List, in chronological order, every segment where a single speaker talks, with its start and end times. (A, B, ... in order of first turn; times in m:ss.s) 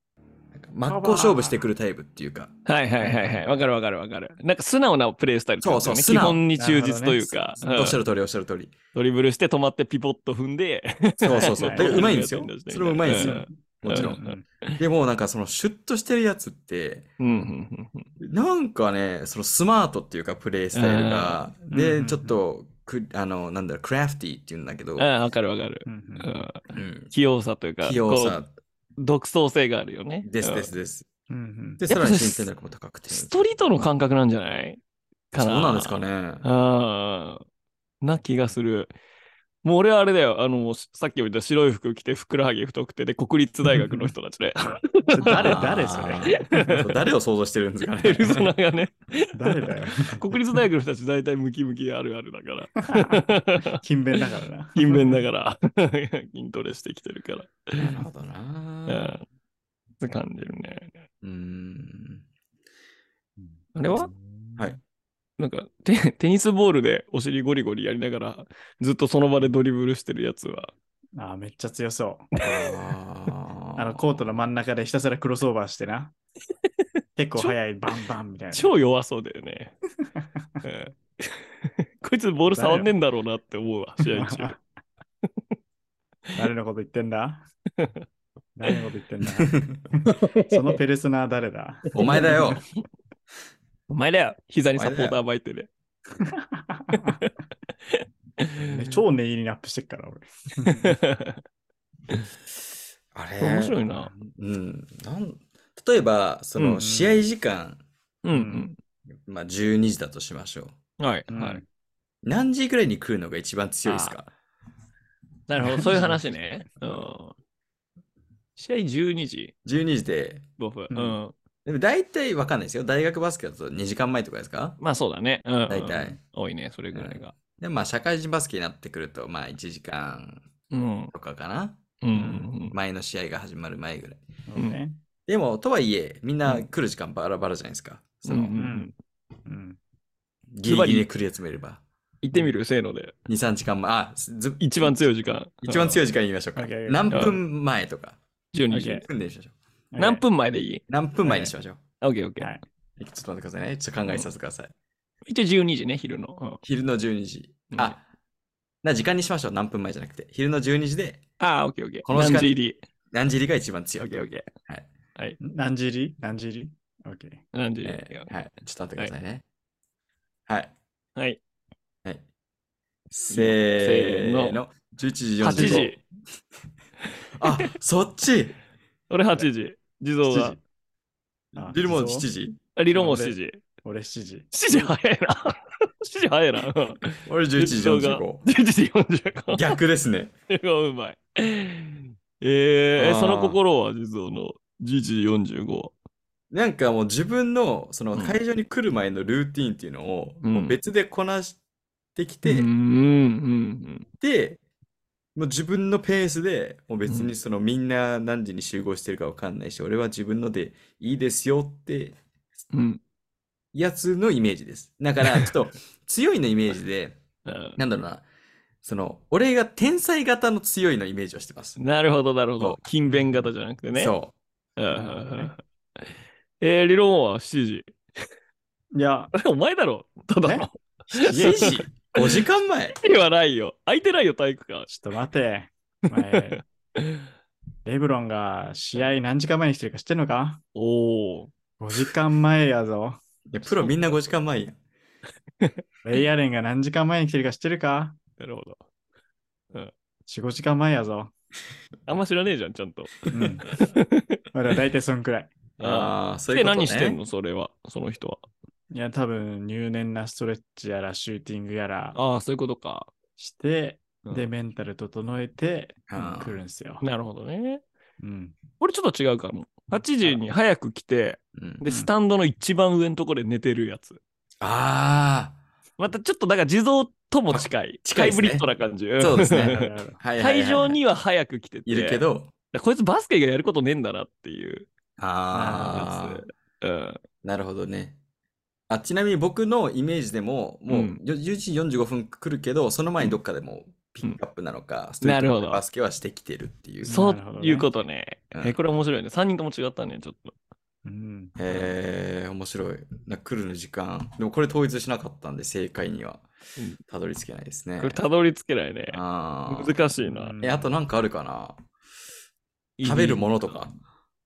0:00.5-0:02.5 A
0:00.9-0:01.6 B
0:02.6-0:08.0 C
0:03.0-0:03.4 B
0:05.6-0:06.4 A
0:06.6-0:07.6 B
0:07.6-0:08.8 A
0:08.9-0:14.8 C
0:11.2-0:14.2 A
0:11.3-0:12.2 B
0:13.0-0:14.4 B
0:14.8-0:17.2 A
0:17.2-0:18.1 C
0:18.2-0:25.1 A
0:20.7-0:21.4 C
0:21.7-0:22.4 B
0:25.0-0:28.4 C
0:25.8-0:26.3 B
0:26.7-0:27.1 A
0:27.8-0:28.5 A
0:29.0-0:30.7 C
0:30.2-0:31.1 A
0:31.3-0:31.8 B
0:31.8-0:33.3 A
0:31.9-0:32.5 C
0:33.1-0:34.8 C
0:35.3-0:37.4 C
0:35.4-0:36.4 A
0:38.0-0:38.9 C
0:39.6-0:45.6 C
0:43.7-0:44.1 B
0:45.1-0:46.8 B
0:45.2-0:48.5 A
0:46.3-0:46.9 C
0:48.0-0:53.8 C
0:49.3-0:50.2 B
0:52.9-0:55.2 B
0:54.7-0:57.9 C
0:57.8-0:59.1 A
0:58.9-0:59.2 C
1:00.0-1:01.0 C
1:01.2-1:02.2 A
1:03.4-1:04.8 B
1:03.7-1:04.1 C
1:05.4-1:10.7 C
1:11.2-1:12.3 B
1:12.4-1:12.8 C
1:12.4-1:14.2 A
1:13.8-1:16.1 B
1:17.2-1:18.7 B
1:18.5-1:19.7 C
1:20.1-1:20.6 B
1:20.6-1:24.5 C
1:22.5-1:22.9 B
1:24.1-1:24.6 B
1:26.4-1:27.4 B
1:27.8-1:28.0 C
1:28.6-1:32.6 B
1:29.5-1:29.8 A
1:30.1-1:30.8 C
1:31.9-1:32.6 A
1:32.0-1:32.5 C
1:33.9-1:35.7 C
1:34.7-1:35.2 A
1:36.2-1:37.2 B
1:36.9-1:37.3 C
1:37.9-1:39.0 C
1:38.6-1:41.0 B
1:40.7-1:41.4 C
1:43.1-1:47.8 A
1:43.4-1:44.1 C
1:46.8-1:47.2 B
1:48.2-1:48.8 C
1:48.3-1:48.7 B
1:49.2-1:50.7 A
1:51.0-1:51.6 C
1:51.3-1:51.6 B
1:52.2-1:54.3 A
1:53.8-1:54.2 C
1:55.5-1:57.3 C
1:55.6-1:56.2 B
1:58.6-1:59.5 C
1:59.6-2:00.4 A
2:00.6-2:01.3 C
2:00.9-2:01.2 B
2:01.6-2:04.8 A
2:04.8-2:07.4 C
2:05.7-2:06.2 A
2:06.9-2:10.5 A
2:10.7-2:11.1 C
2:11.1-2:14.2 A
2:12.0-2:12.8 C
2:14.5-2:15.0 B
2:15.3-2:18.6 A
2:18.3-2:18.9 C
2:18.6-2:18.9 B
2:19.4-2:19.8 B
2:20.5-2:21.8 A
2:20.6-2:21.0 C
2:22.2-2:23.1 C
2:23.3-2:25.1 A
2:24.6-2:26.0 C
2:25.6-2:28.2 A
2:26.6-2:27.2 B
2:27.1-2:27.4 C
2:28.5-2:29.0 C
2:28.7-2:29.0 B
2:29.0-2:29.5 A
2:29.9-2:30.2 B
2:30.0-2:30.8 C
2:30.9-2:31.8 A
2:31.2-2:31.5 B
2:32.0-2:32.5 C
2:32.4-2:32.6 B
2:33.0-2:34.7 A
2:35.2-2:36.6 C
2:36.6-2:38.0 A
2:38.8-2:41.2 A
2:41.4-2:42.8 C
2:42.0-2:42.6 A
2:43.1-2:44.9 A
2:44.0-2:44.5 C
2:45.4-2:47.4 B
2:47.5-2:48.3 C
2:47.8-2:49.4 A
2:50.5-2:50.7 A
2:53.1-2:56.0 A
2:53.3-2:54.6 C
2:55.4-2:56.0 C
2:55.4-2:55.9 B
2:57.4-2:58.6 A
2:59.1-3:00.6 C
3:00.3-3:00.6 B
3:01.5-3:02.6 A
3:01.6-3:02.3 B
3:02.8-3:03.6 C
3:02.9-3:04.5 B
3:04.5-3:09.8 C
3:07.2-3:08.4 A
3:09.5-3:10.3 A
3:10.5-3:15.9 C
3:13.0-3:13.6 A
3:16.5-3:21.6 A
3:20.4-3:20.8 C
3:22.2-3:22.7 A
3:22.4-3:24.1 C
3:24.2-3:24.6 A
3:25.3-3:32.2 A
3:32.7-3:33.0 C
3:33.7-3:37.2 A
3:37.4-3:37.8 C
3:37.8-3:38.2 A
3:38.8-3:41.8 A
3:41.8-3:44.1 C
3:43.1-3:43.4 B
3:43.9-3:44.3 A
3:44.8-3:46.1 C
3:44.9-3:45.5 B
3:46.6-3:47.9 C
3:48.9-3:49.3 B
3:49.3-3:52.4 C
3:50.4-3:50.7 B
3:51.1-3:53.0 A
3:53.0-3:54.9 C
3:54.9-3:56.6 B
3:56.1-3:57.2 C
3:57.8-4:00.6 B
4:00.7-4:01.5 C
4:01.8-4:03.2 B
4:03.5-4:04.8 A
4:06.0-4:08.2 B
4:08.4-4:08.8 C
4:10.3-4:11.3 B
4:12.1-4:14.4 C
4:13.3-4:13.6 B
4:14.5-4:15.5 B
4:15.8-4:17.2 A
4:15.8-4:18.5 C
4:18.9-4:22.2 B
4:22.1-4:23.1 C
4:23.4-4:27.0 B
4:26.1-4:26.6 A
4:27.0-4:27.8 C
4:28.2-4:28.6 B
4:28.8-4:34.2 C
4:31.6-4:31.8 A
4:31.8-4:32.1 B
4:34.6-4:35.6 A
4:36.0-4:44.9 C
4:37.5-4:38.7 A
4:39.2-4:41.0 A
4:39.5-4:40.2 B
4:41.8-4:42.5 A
4:45.2-4:46.4 A
4:45.5-4:46.1 B
4:45.8-4:47.2 C
4:47.4-4:48.2 A
4:48.9-4:57.2 A
4:50.9-4:51.2 C
4:55.2-4:55.8 C
4:57.0-4:57.9 B
4:57.0-5:00.5 C
5:01.0-5:01.5 B
5:01.6-5:06.4 A
5:07.1-5:08.2 A
5:08.0-5:10.5 C
5:09.1-5:10.0 A
5:10.3-5:10.9 B
5:10.6-5:11.8 A
5:13.0-5:13.8 C
5:13.0-5:13.9 A